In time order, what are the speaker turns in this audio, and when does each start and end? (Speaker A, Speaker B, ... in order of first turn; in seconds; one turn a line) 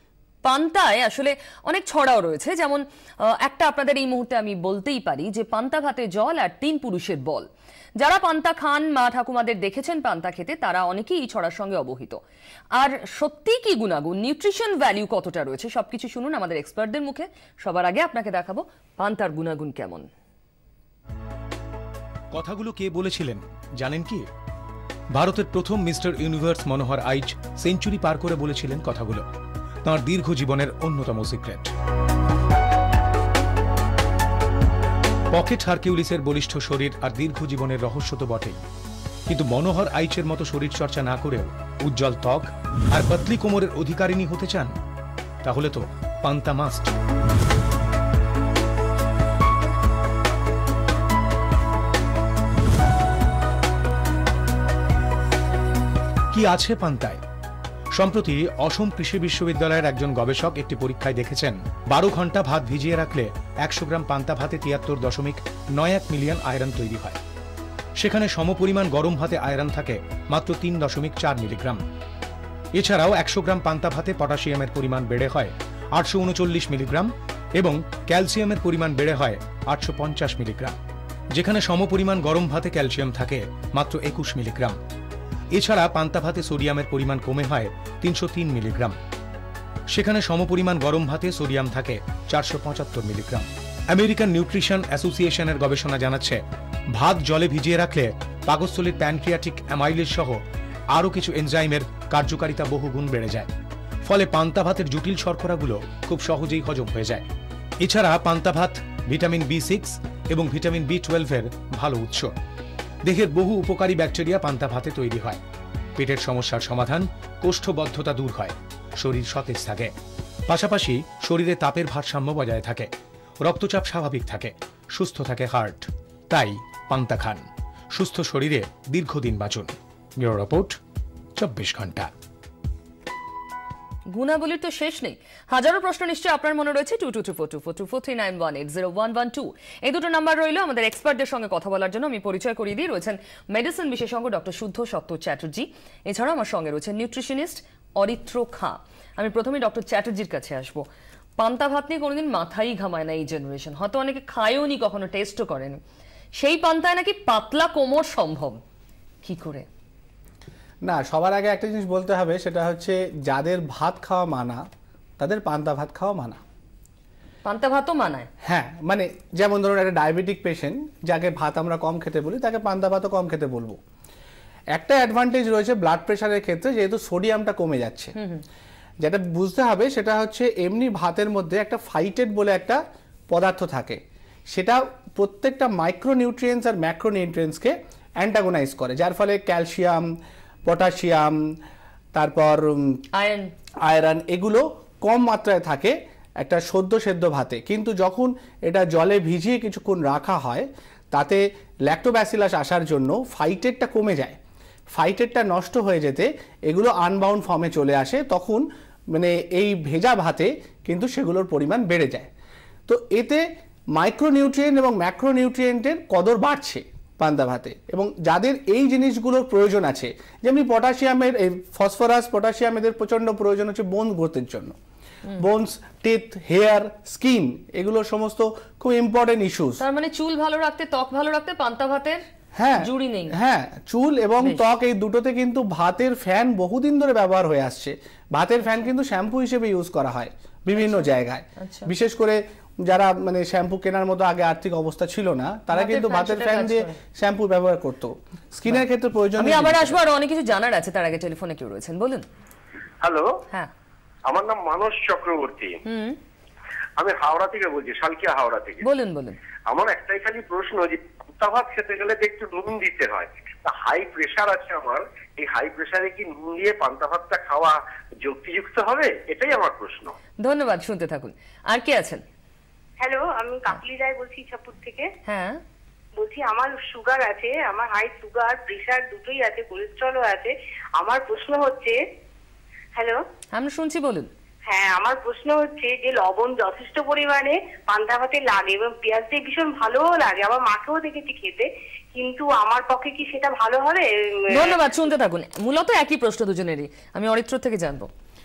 Speaker A: 0.4-12.2
Speaker A: 12.8-20.1
Speaker B: 22.3-24.2
Speaker B: 25.1-29.2
Speaker B: 29.9-31.7
Speaker B: 35.3-38.6
Speaker B: 39.3-44.7
Speaker B: 45.4-46.9
Speaker B: 56.3-57.2
Speaker B: 58.0-67.2
Speaker B: 68.0-71.8
Speaker B: 72.8-80.8
Speaker B: 81.3-84.8
Speaker B: 85.5-89.0
Speaker B: 89.9-96.4
Speaker B: 96.9-100.4
Speaker B: 100.9-103.5
Speaker B: 104.1-107.2
Speaker B: 107.8-112.3
Speaker B: 113.0-115.4
Speaker B: 116.0-119.9
Speaker B: 120.5-122.9
Speaker B: 123.4-130.8
Speaker B: 131.4-132.1
Speaker A: 134.1-150.8
Speaker A: 151.4-155.8
Speaker A: 156.4-158.6
Speaker A: 159.2-159.7
Speaker C: 160.8-164.6
Speaker C: 165.2-166.4
Speaker A: 167.4-168.3
Speaker C: 168.4-173.8
Speaker C: 174.8-178.1
Speaker C: 179.0-182.8
Speaker C: 183.3-190.1
Speaker C: 190.7-191.4
Speaker C: 192.2-193.0
Speaker A: 193.1-193.5
Speaker C: 193.8-204.4
Speaker C: 204.9-212.3
Speaker C: 212.9-213.4
Speaker C: 214.0-224.8
Speaker C: 225.4-229.8
Speaker A: 229.8-232.2
Speaker C: 232.6-250.0
Speaker A: 232.8-233.3
Speaker A: 240.8-241.9
Speaker A: 245.7-246.9
Speaker A: 249.4-252.2
Speaker D: 253.0-253.3
Speaker D: 254.3-255.8
Speaker A: 255.9-256.2
Speaker D: 257.0-258.8
Speaker A: 258.8-259.4
Speaker D: 259.7-270.1
Speaker A: 270.4-272.2
Speaker E: 273.0-275.1
Speaker A: 275.3-275.6
Speaker E: 276.2-282.0
Speaker E: 282.9-283.2
Speaker A: 283.6-284.3
Speaker E: 284.7-294.6
Speaker A: 294.5-298.1